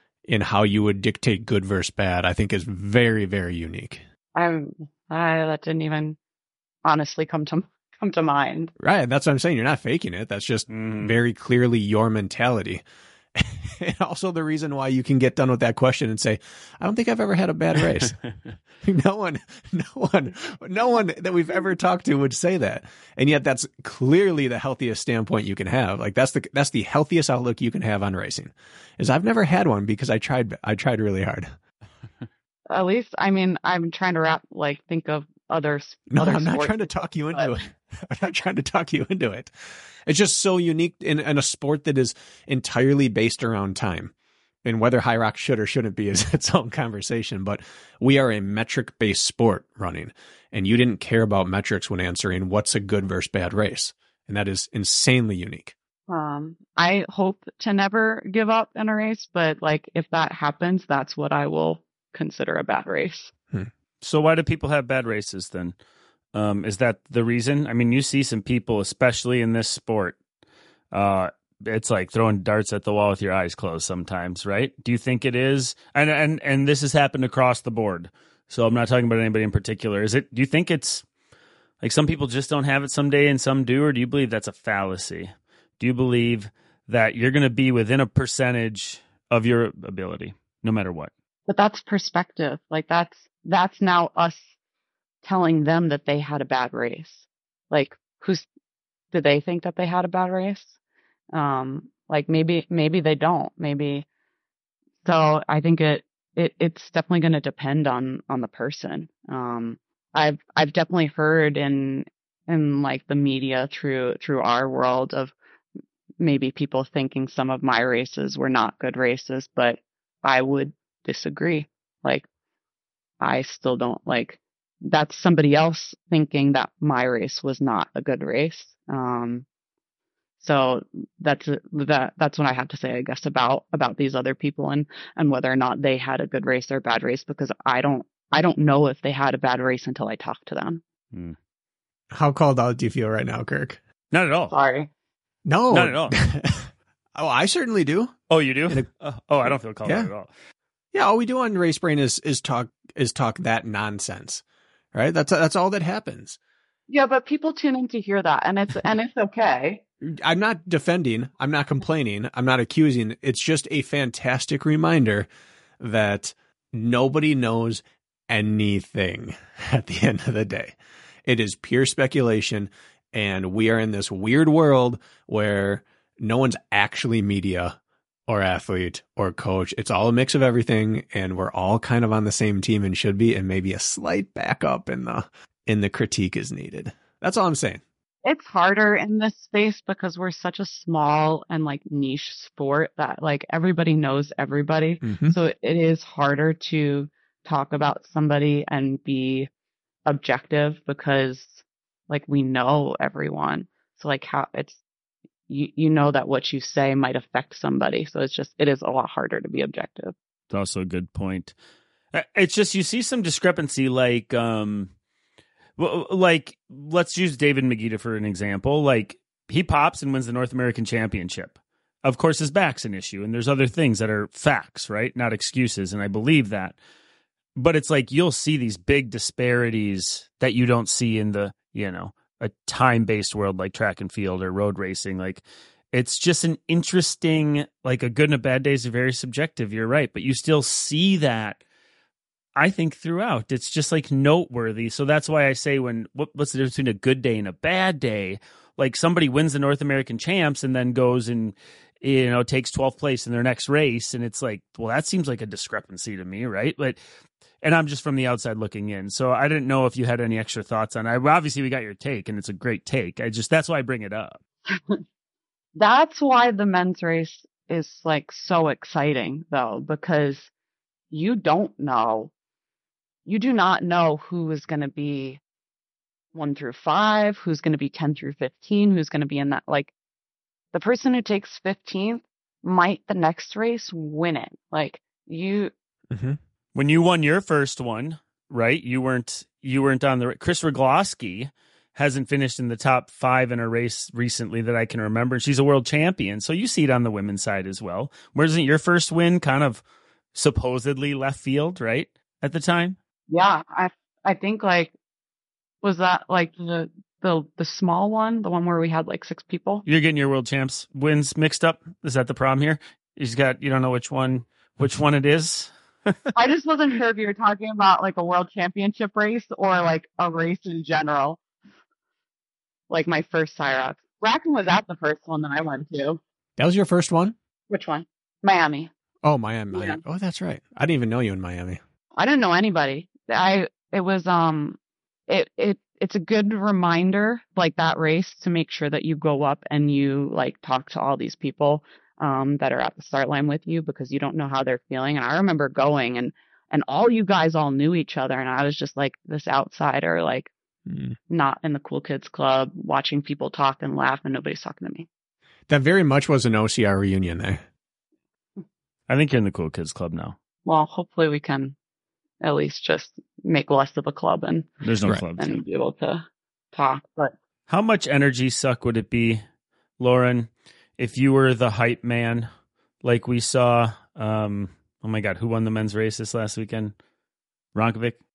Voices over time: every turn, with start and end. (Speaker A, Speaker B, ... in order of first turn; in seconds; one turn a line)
Speaker A: 0.3-4.0
Speaker B: 4.3-6.2
Speaker B: 6.8-8.7
Speaker A: 8.8-12.8
Speaker C: 10.7-11.1
Speaker A: 13.3-18.1
Speaker C: 17.8-18.3
Speaker A: 18.8-31.5
Speaker B: 32.7-37.5
Speaker A: 36.1-39.5
Speaker A: 40.0-44.1
Speaker A: 44.6-55.7
Speaker B: 56.1-63.3
Speaker C: 64.0-65.8
Speaker C: 66.3-70.2
Speaker C: 70.9-81.0
Speaker C: 81.8-91.1
Speaker B: 91.5-94.5
Speaker B: 95.2-98.5
Speaker B: 99.1-100.8
Speaker B: 101.3-104.1
Speaker B: 105.0-115.3
Speaker B: 116.2-122.3
Speaker B: 123.2-129.4
Speaker B: 130.4-140.8
Speaker C: 141.1-141.4
Speaker A: 142.1-143.8
Speaker C: 144.1-144.6
Speaker B: 144.5-144.9
Speaker A: 145.4-148.2
Speaker C: 145.7-146.2
Speaker C: 148.3-150.3
Speaker A: 149.4-150.1
Speaker A: 150.9-154.4
Speaker A: 154.9-156.4
Speaker B: 156.9-159.8
Speaker A: 160.1-165.3
Speaker A: 165.8-187.8
Speaker B: 188.2-199.5
Speaker A: 195.0-195.4
Speaker B: 200.1-204.8
Speaker B: 205.5-210.2
Speaker C: 210.5-211.5
Speaker C: 212.1-214.9
Speaker C: 215.8-226.8
Speaker C: 227.6-241.6
Speaker C: 242.6-257.0
Speaker C: 257.6-264.4
Speaker B: 265.8-270.5
Speaker B: 271.1-272.3
Speaker B: 273.3-275.4
Speaker B: 276.3-279.9
Speaker B: 280.7-285.7
Speaker A: 286.1-286.4
Speaker C: 286.7-299.8
Speaker C: 300.4-303.0
Speaker B: 303.3-304.9
Speaker B: 305.8-309.9
Speaker C: 309.9-316.2
Speaker B: 316.4-321.4
Speaker B: 322.9-326.2
Speaker A: 326.6-327.4
Speaker B: 327.7-328.9
Speaker A: 329.2-331.8
Speaker B: 329.7-330.0
Speaker B: 332.2-350.5
Speaker A: 350.9-351.1
Speaker B: 351.3-355.1
Speaker A: 355.7-357.6
Speaker C: 359.1-360.4
Speaker B: 360.6-361.8
Speaker B: 362.4-364.7
Speaker C: 364.8-365.6
Speaker B: 365.4-367.4
Speaker C: 367.7-369.4
Speaker C: 370.0-372.5
Speaker C: 373.0-376.9
Speaker C: 377.7-378.2